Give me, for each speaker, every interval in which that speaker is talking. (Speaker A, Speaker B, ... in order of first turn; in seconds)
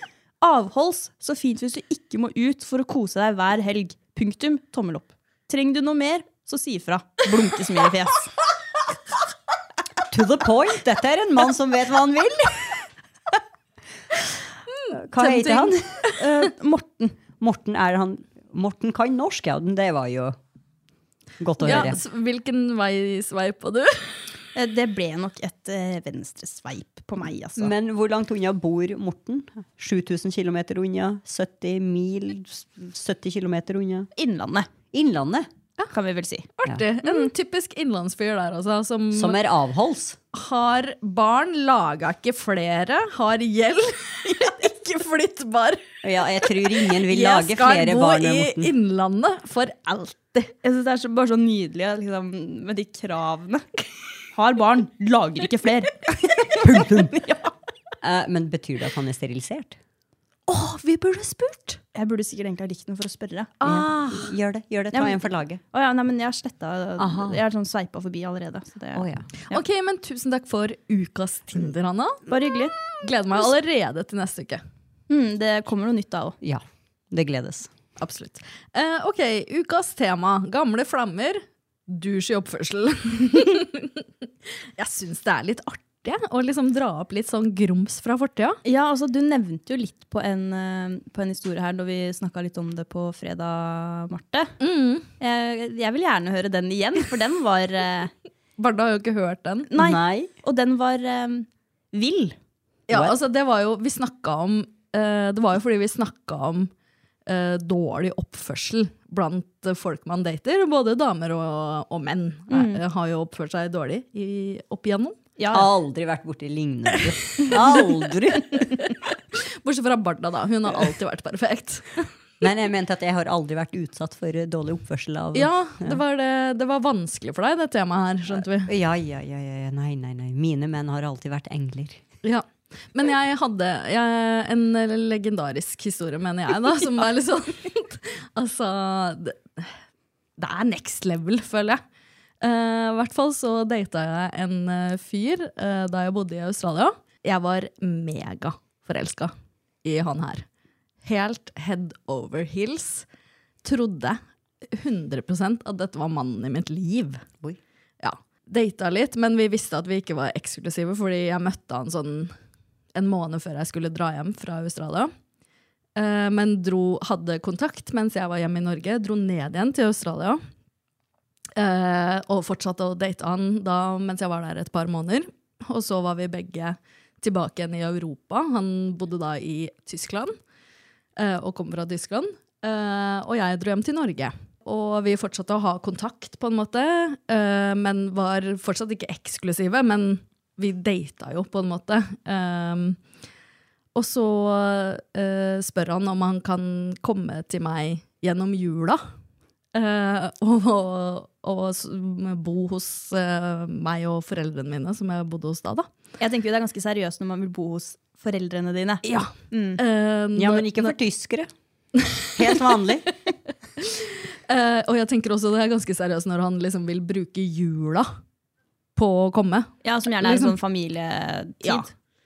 Speaker A: 0.4-8.3, 16.1-17.2, 21.7-21.9, 24.5-27.7, 34.1-34.7, 35.9-36.5, 37.0-37.3, 50.6-53.6, 54.3-57.5, 61.9-63.5, 64.9-69.6, 72.3-72.8, 75.1-76.4, 88.6-94.5, 95.2-98.1, 99.7-102.3, 112.5-112.8, 115.4-115.7, 206.2-209.8, 219.8-221.9
Speaker B: 10.1-12.8, 14.9-15.8, 17.3-20.4, 21.4-22.0, 27.6-34.1, 34.9-35.5, 39.1-40.2, 46.0-48.7, 56.6-57.2, 58.0-59.8, 63.6-65.6, 67.0-67.4, 68.9-69.3, 76.4-77.7, 99.8-100.3, 102.9-103.2, 115.5-118.9, 122.4-126.0, 128.6-132.0, 210.3-211.5, 212.3-213.1
Speaker C: 15.2-16.2, 21.6-24.1, 36.6-39.4, 40.3-50.5, 60.5-61.8, 63.6-64.3, 69.5-72.2, 73.0-74.6, 78.0-84.0, 84.8-88.6, 94.6-95.1, 98.6-99.7, 102.9-106.7, 107.3-115.2, 119.6-122.1, 125.3-128.7, 132.2-139.7, 140.4-141.8, 142.4-149.3, 149.8-150.4, 151.0-153.1, 153.6-154.2, 154.7-157.2, 158.0-162.3, 162.9-165.1, 165.9-170.4, 171.6-180.3, 181.2-193.0, 193.9-199.0, 199.7-205.9, 209.0-210.9, 213.8-218.1, 218.9-220.5